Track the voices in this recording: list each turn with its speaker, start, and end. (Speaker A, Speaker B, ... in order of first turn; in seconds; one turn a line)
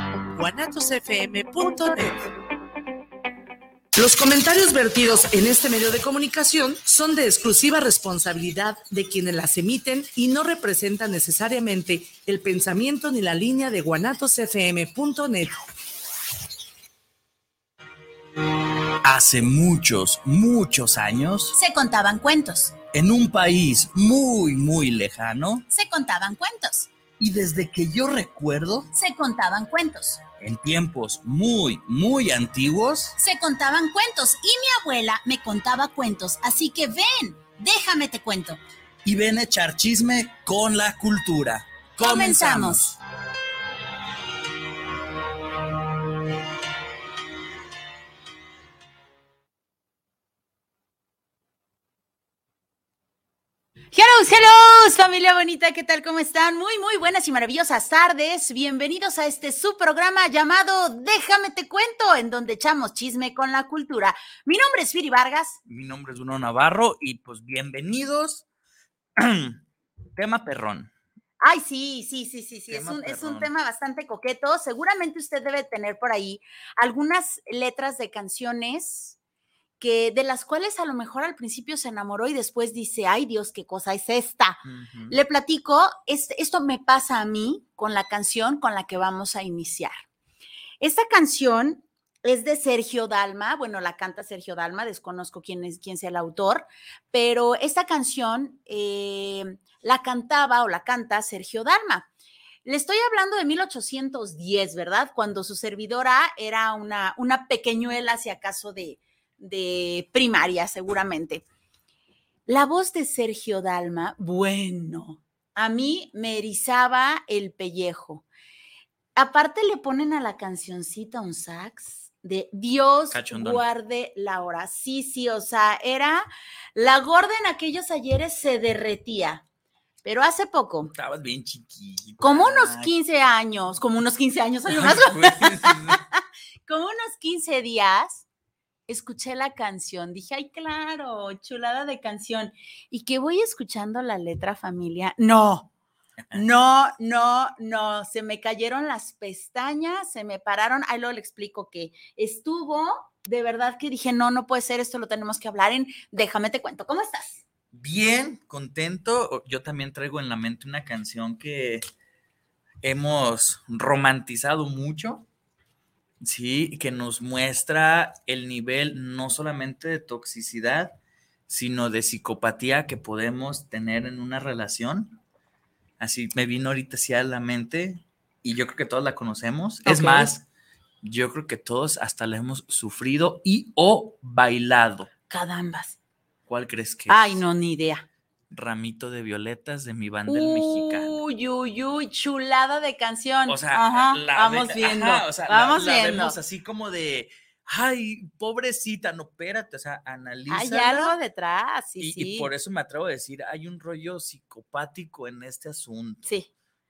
Speaker A: 0.3-2.3
Speaker A: 4.0-15.6
Speaker B: 19.0-21.6
Speaker C: 21.5-22.7
Speaker B: 22.9-25.6
Speaker C: 25.7-26.9
Speaker B: 27.2-28.9
Speaker C: 28.9-30.2
Speaker B: 30.4-33.1
Speaker C: 33.2-38.6
Speaker B: 39.0-43.0
Speaker C: 42.0-42.9
Speaker C: 53.9-65.6
Speaker B: 65.7-68.4
Speaker B: 69.2-69.6
Speaker B: 70.2-70.9
Speaker C: 71.4-79.2
Speaker B: 72.7-73.5
Speaker C: 79.8-89.9
Speaker B: 84.6-85.2
Speaker C: 90.8-102.1
Speaker C: 102.6-111.4
Speaker C: 112.5-118.2
Speaker C: 119.2-129.4
Speaker B: 123.1-123.6
Speaker C: 130.0-130.9
Speaker B: 130.9-132.9
Speaker C: 132.2-138.2
Speaker B: 134.7-136.0
Speaker C: 138.9-145.7
Speaker C: 146.3-157.4
Speaker B: 157.7-161.8
Speaker B: 162.8-165.2
Speaker B: 166.2-171.0
Speaker B: 171.5-175.2
Speaker B: 176.0-180.4
Speaker C: 179.8-180.3
Speaker B: 181.0-185.1
Speaker C: 185.3-186.0
Speaker B: 186.5-187.4
Speaker C: 187.1-188.1
Speaker B: 188.5-191.2
Speaker C: 190.3-196.3
Speaker B: 193.5-201.1
Speaker C: 200.5-202.5
Speaker B: 202.0-206.3